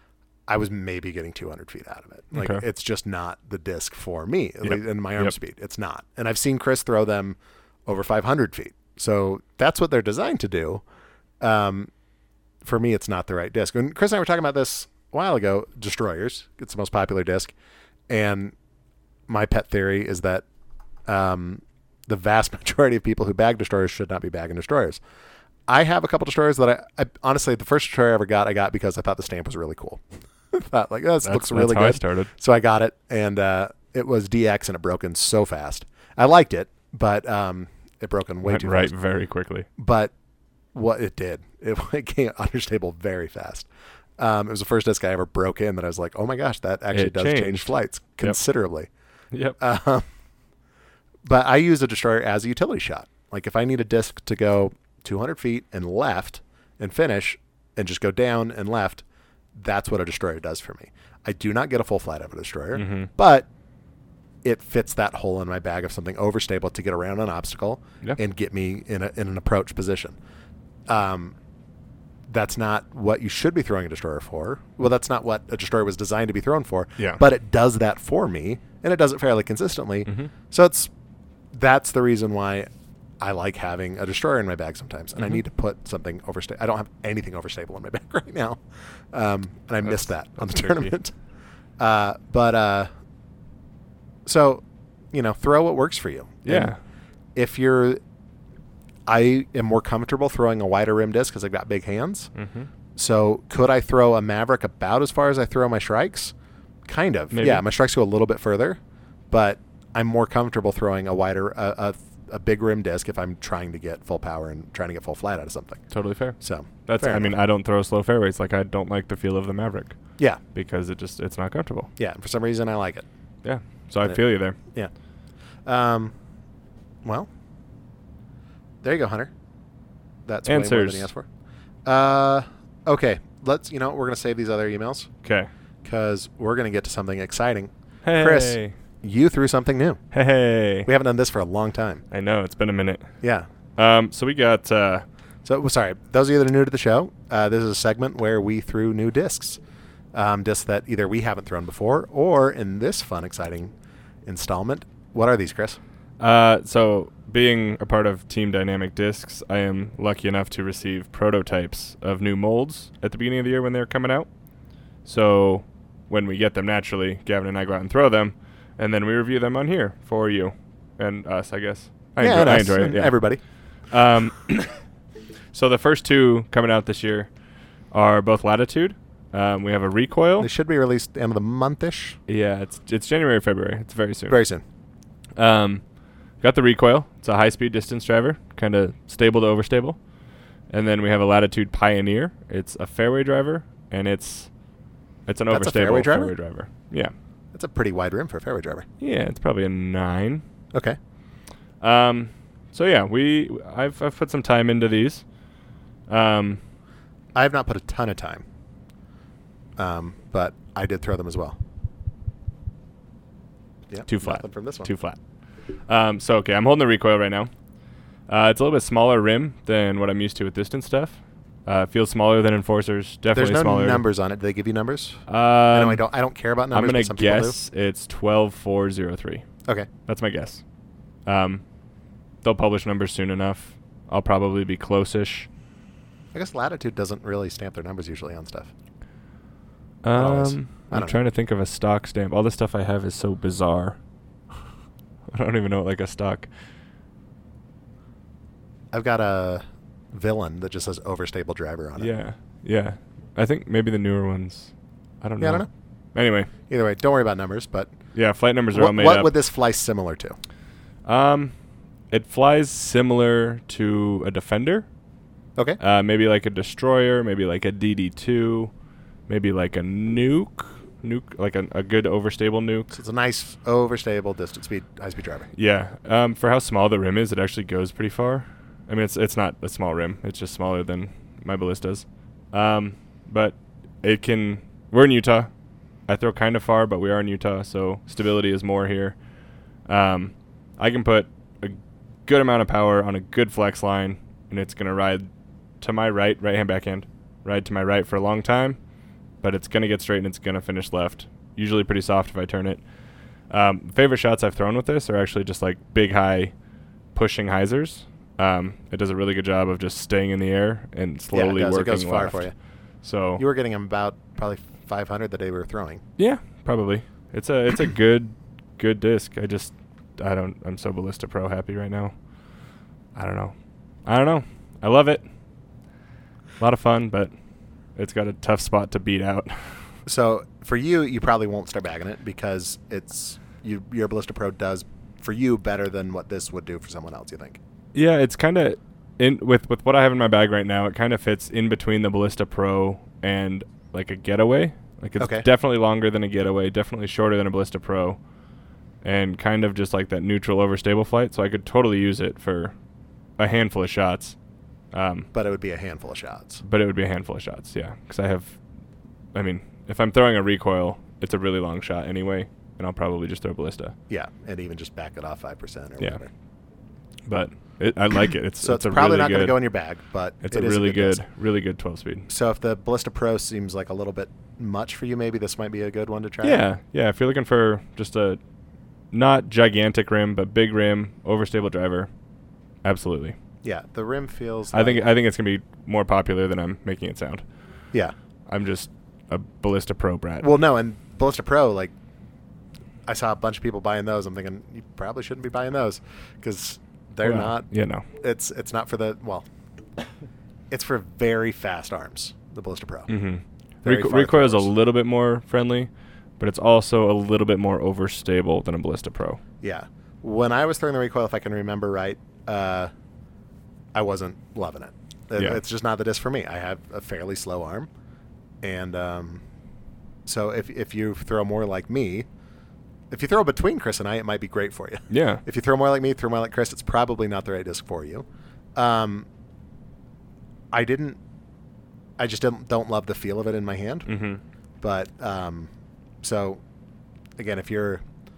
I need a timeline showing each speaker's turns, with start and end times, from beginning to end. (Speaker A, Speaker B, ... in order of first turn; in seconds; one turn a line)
Speaker A: 0.5-10.8
Speaker B: 2.3-2.6
Speaker B: 4.6-5.3
Speaker A: 11.4-11.9
Speaker A: 12.6-17.5
Speaker A: 18.1-18.5
Speaker A: 19.3-20.4
Speaker A: 21.1-25.0
Speaker A: 25.7-30.0
Speaker A: 30.5-38.9
Speaker B: 31.2-32.3
Speaker B: 38.4-39.7
Speaker A: 39.8-40.1
Speaker A: 40.7-43.7
Speaker A: 44.2-48.9
Speaker B: 46.9-48.4
Speaker B: 49.3-49.6
Speaker A: 49.6-50.1
Speaker A: 51.2-59.0
Speaker A: 59.5-63.5
Speaker B: 62.8-63.1
Speaker A: 64.4-70.2
Speaker A: 70.9-71.3
Speaker A: 72.3-80.9
Speaker B: 80.1-80.3
Speaker A: 81.5-82.7
Speaker A: 83.2-88.6
Speaker A: 89.1-91.1
Speaker B: 89.8-90.9
Speaker A: 91.8-92.9
Speaker A: 94.3-96.8
Speaker B: 96.5-96.8
Speaker A: 97.3-98.0
Speaker A: 99.1-102.3
Speaker B: 102.3-102.7
Speaker A: 103.0-106.3
Speaker A: 106.9-108.8
Speaker B: 107.3-107.7
Speaker A: 109.3-115.8
Speaker B: 115.9-120.0
Speaker A: 116.4-117.4
Speaker B: 120.5-121.9
Speaker A: 122.0-123.1
Speaker B: 123.4-124.6
Speaker A: 124.0-124.9
Speaker A: 125.7-126.2
Speaker A: 128.8-129.3
Speaker A: 130.3-131.3
Speaker B: 130.5-131.1
Speaker A: 131.9-135.1
Speaker B: 135.2-135.5
Speaker A: 135.8-140.0
Speaker B: 138.0-138.8
Speaker B: 140.1-140.9
Speaker A: 140.8-142.0
Speaker B: 142.1-143.1
Speaker A: 143.2-143.5
Speaker B: 143.8-145.1
Speaker A: 145.4-149.6
Speaker A: 150.1-153.7
Speaker A: 154.3-155.8
Speaker B: 156.2-164.3
Speaker B: 165.1-173.2
Speaker A: 172.2-173.4
Speaker B: 173.9-174.8
Speaker B: 175.5-177.3
Speaker B: 177.9-180.5
Speaker A: 180.4-182.2
Speaker B: 182.3-184.4
Speaker A: 184.3-184.6
Speaker B: 185.4-185.8
Speaker B: 186.4-190.0
Speaker B: 190.7-194.5
Speaker B: 195.3-197.1
Speaker A: 195.5-196.3
Speaker A: 197.5-198.9
Speaker B: 199.0-200.4
Speaker B: 201.8-205.2
Speaker B: 206.1-206.6
Speaker A: 207.3-208.4
Speaker A: 209.8-211.6
Speaker A: 213.9-214.9
Speaker B: 214.1-215.2
Speaker B: 215.9-217.5
Speaker B: 218.3-224.0
Speaker A: 223.3-227.6
Speaker B: 225.3-226.0
Speaker B: 226.7-229.5
Speaker B: 230.1-230.6
Speaker B: 231.3-231.6
Speaker B: 232.4-235.5
Speaker A: 236.3-238.7
Speaker B: 240.0-244.0
Speaker A: 240.2-241.2
Speaker B: 245.3-246.5
Speaker A: 248.9-252.1
Speaker B: 252.0-256.5
Speaker A: 255.4-255.7
Speaker A: 256.7-257.9
Speaker B: 258.1-259.3
Speaker A: 258.7-260.4
Speaker B: 261.1-261.5
Speaker B: 262.1-264.9
Speaker B: 265.8-268.7
Speaker B: 269.3-272.9
Speaker A: 272.9-275.5
Speaker B: 275.5-285.5
Speaker B: 286.1-289.2
Speaker B: 289.9-295.3
Speaker B: 295.8-298.8
Speaker B: 299.4-302.8
Speaker B: 303.5-306.5
Speaker B: 307.1-312.5
Speaker A: 311.3-312.5
Speaker B: 313.0-313.4
Speaker A: 313.4-316.0
Speaker B: 316.2-322.1
Speaker B: 323.1-323.5
Speaker B: 324.1-325.2
Speaker B: 326.6-327.3
Speaker B: 327.9-329.9
Speaker A: 330.1-337.6
Speaker B: 337.9-348.2
Speaker A: 345.2-345.5
Speaker B: 349.0-352.7
Speaker B: 353.4-354.4
Speaker B: 354.9-355.3
Speaker A: 355.3-356.6
Speaker B: 356.6-358.6
Speaker B: 359.3-363.9
Speaker A: 364.1-366.3
Speaker B: 367.3-369.6
Speaker A: 368.6-371.2
Speaker B: 370.4-372.3
Speaker A: 372.3-376.6
Speaker B: 376.4-378.4
Speaker B: 379.1-382.1
Speaker B: 382.8-383.4
Speaker A: 383.6-385.1
Speaker B: 384.7-387.4
Speaker B: 388.5-390.5
Speaker A: 390.4-391.9
Speaker A: 393.1-397.7
Speaker B: 397.2-398.1
Speaker A: 398.2-399.5
Speaker A: 400.7-403.1
Speaker B: 403.1-409.4
Speaker A: 403.8-404.7
Speaker A: 409.6-412.9
Speaker A: 413.9-417.9
Speaker A: 418.6-419.4
Speaker A: 420.3-422.3
Speaker A: 423.1-429.3
Speaker B: 425.1-425.4
Speaker A: 430.7-431.2
Speaker A: 432.2-434.1
Speaker B: 434.1-434.4
Speaker A: 434.8-435.7
Speaker A: 436.2-436.6
Speaker A: 437.4-438.0